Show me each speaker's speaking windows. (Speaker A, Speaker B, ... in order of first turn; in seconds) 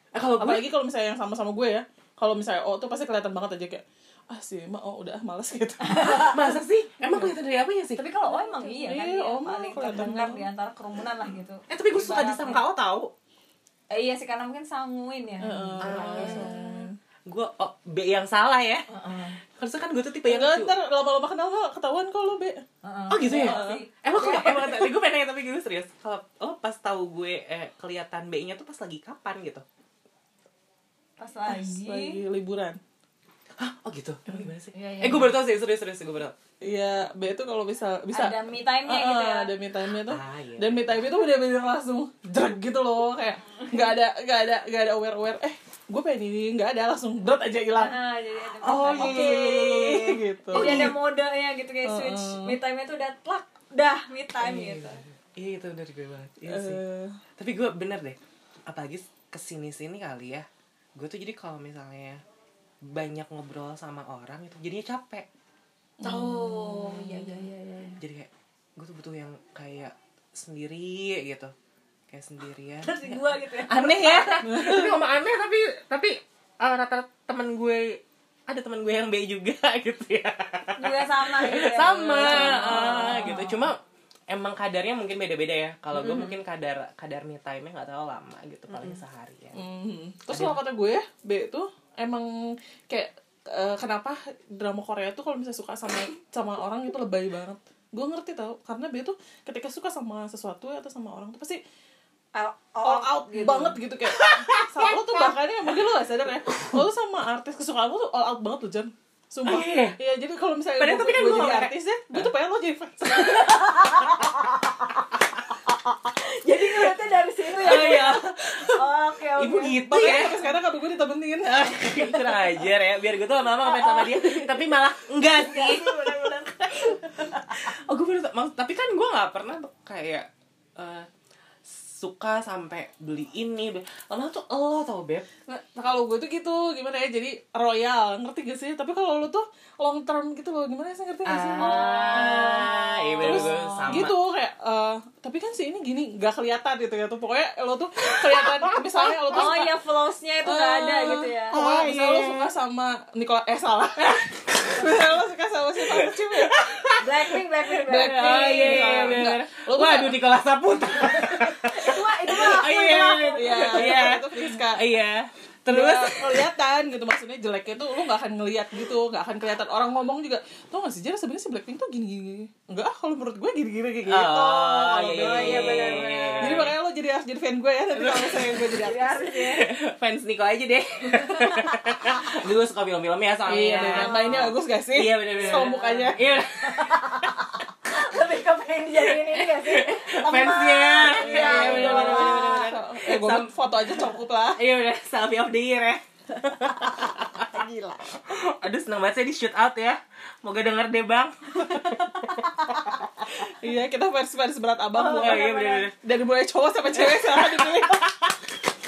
Speaker A: 0.1-0.7, 6.0-8.0, 11.7-13.1, 15.8-16.6, 17.3-18.9, 19.6-20.7, 23.1-29.6, 33.6-36.4, 40.0-41.1, 48.6-51.0, 54.4-56.8, 57.4-62.2, 62.9-65.3, 67.0-67.3, 68.0-71.5, 72.1-83.8, 84.3-89.6, 90.3-90.6, 104.1-105.3, 109.4-110.0, 110.8-112.3, 117.6-118.8, 119.4-120.4, 121.5-131.1, 131.7-135.3, 141.2-144.2, 148.1-149.5, 151.5-152.5, 154.5-154.9, 155.8-166.5, 174.1-176.7, 177.9-178.7, 179.2-187.4, 188.9-197.7, 198.3-203.3, 205.0-206.0, 206.9-208.4
Speaker B: 0.4-6.3, 8.3-10.5, 15.4-16.9, 20.3-22.6, 23.2-23.8, 31.5-32.8, 36.6-48.0, 48.9-51.0, 51.8-52.6, 56.5-57.2, 66.0-67.0, 74.4-75.0, 82.4-83.5, 86.0-86.3, 89.5-101.6, 102.8-113.7, 119.8-122.4, 135.5-149.8, 150.4-156.9, 157.8-160.2, 162.3-162.8, 163.3-164.8, 165.7-179.2, 183.5-186.3, 191.1-194.6, 203.3-208.1
Speaker C: 5.8-6.5, 8.0-12.6, 13.9-16.9, 18.9-19.4, 22.8-24.9, 31.2-32.2, 34.7-35.4, 38.1-39.5, 47.8-49.7, 50.5-55.0, 66.0-68.0, 72.8-74.5, 80.8-83.5, 88.7-89.0, 102.3-103.8, 113.1-115.0, 116.1-120.2, 123.6-124.6, 125.2-127.6, 141.6-144.1, 149.3-151.6, 157.0-159.3, 161.2-164.1, 174.5-176.7, 178.7-179.7, 183.6-184.5, 185.7-186.1, 186.6-192.7, 196.6-198.2, 201.7-202.7, 204.9-205.9